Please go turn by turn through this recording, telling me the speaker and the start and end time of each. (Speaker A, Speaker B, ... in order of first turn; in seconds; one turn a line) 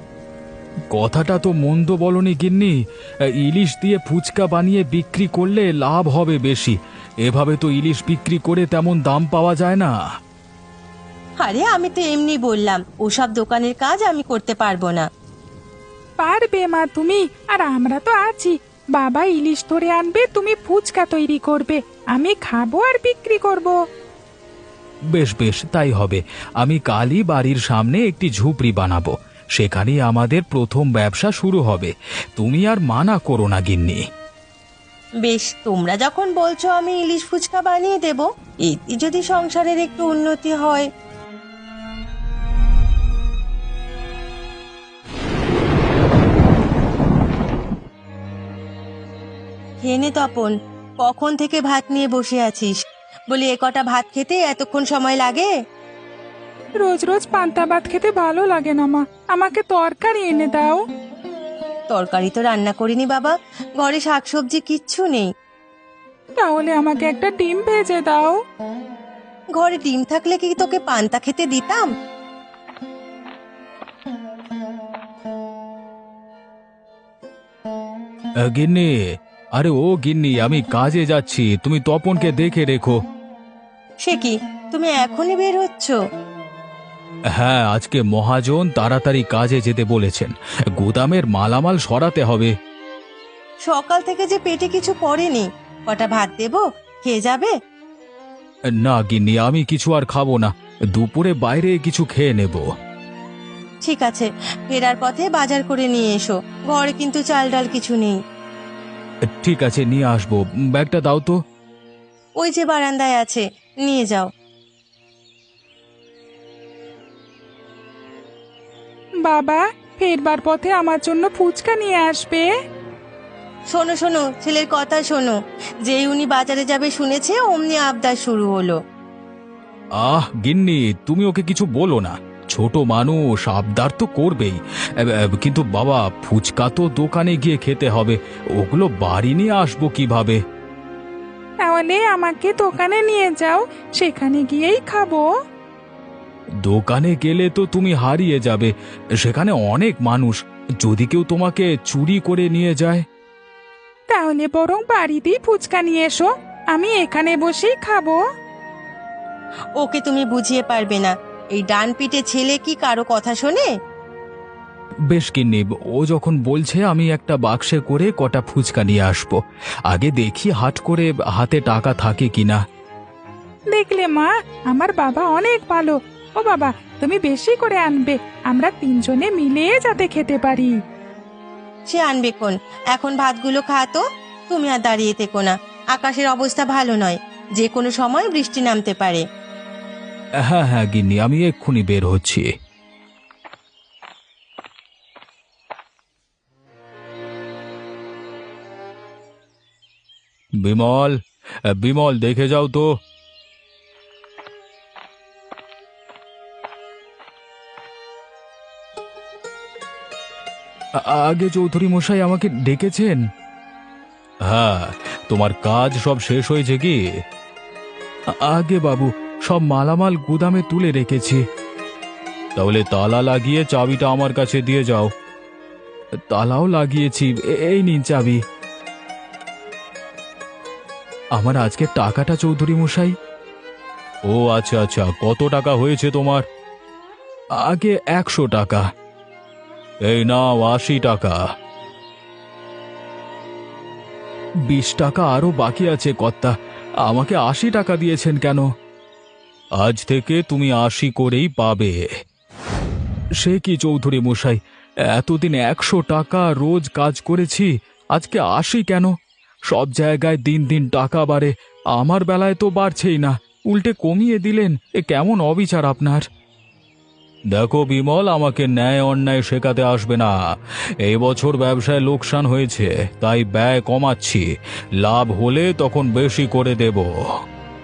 Speaker A: 0.9-2.8
Speaker A: 3.4-9.9
Speaker B: 11.4-15.1
Speaker C: 16.2-23.8
Speaker A: 25.1-34.0
Speaker B: 35.2-40.9
Speaker B: 49.8-52.8
Speaker B: 53.3-55.5
Speaker C: 56.8-60.9
Speaker B: 61.9-65.3
Speaker C: 66.4-68.4
Speaker B: 69.6-71.9
Speaker A: 78.4-79.0
Speaker A: 79.5-83.0
Speaker B: 84.0-86.0
Speaker A: 87.3-92.5
Speaker B: 93.7-97.5
Speaker A: 98.8-102.7
Speaker B: 103.8-108.2
Speaker A: 109.3-111.4
Speaker B: 112.4-114.3
Speaker C: 119.2-122.5
Speaker B: 123.7-128.8
Speaker A: 130.0-140.4
Speaker C: 141.7-145.3
Speaker A: 146.6-153.1
Speaker C: 154.1-158.2
Speaker B: 159.8-163.7
Speaker A: 165.1-172.6
Speaker C: 173.7-180.7
Speaker B: 181.9-189.2
Speaker A: 190.4-192.5
Speaker A: 200.6-201.2
Speaker A: 201.7-202.9
Speaker A: 211.0-213.2
Speaker A: 214.5-217.0
Speaker A: 218.3-221.4
Speaker A: 222.6-225.1
Speaker A: 226.3-228.4
Speaker A: 231.4-233.2
Speaker A: 234.3-236.4
Speaker A: 237.6-238.9
Speaker A: 240.0-241.4
Speaker A: 244.7-248.7
Speaker A: 249.8-252.1
Speaker A: 253.4-259.1
Speaker A: 259.7-266.3
Speaker A: 267.5-270.3
Speaker A: 271.0-274.5
Speaker A: 275.0-277.1